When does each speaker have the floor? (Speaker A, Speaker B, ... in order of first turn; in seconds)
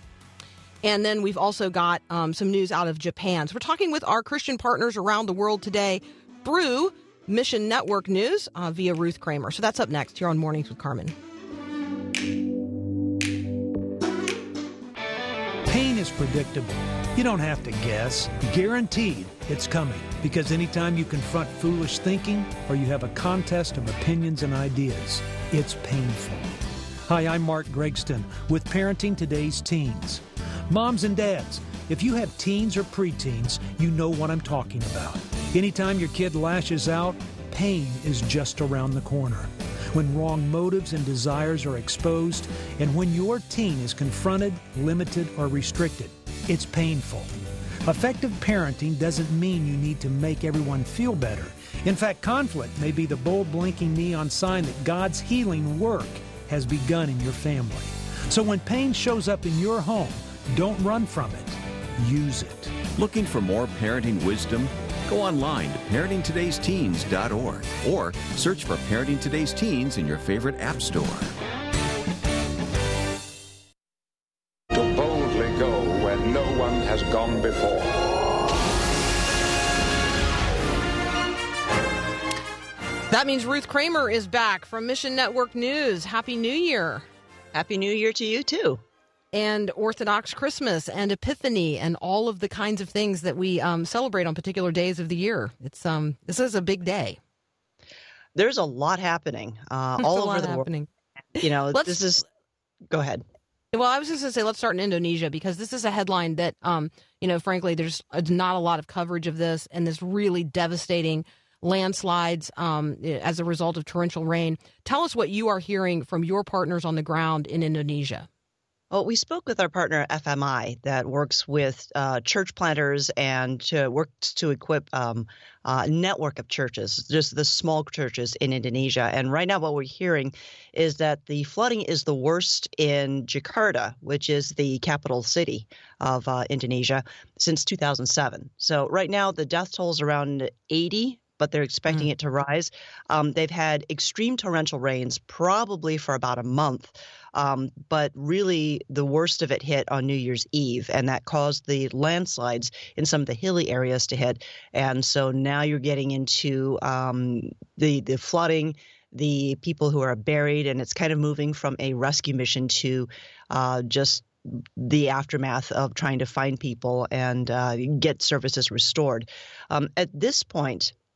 Speaker A: 0.8-11.1, 83.1-87.0, 89.3-97.2, 100.0-100.9, 101.4-102.0, 103.7-118.3
Speaker B: 15.7-47.3, 47.8-62.8
Speaker C: 63.0-71.2
Speaker D: 74.7-78.0
Speaker E: 87.5-88.8, 98.3-100.7, 101.4-102.2, 102.9-103.2, 118.9-170.9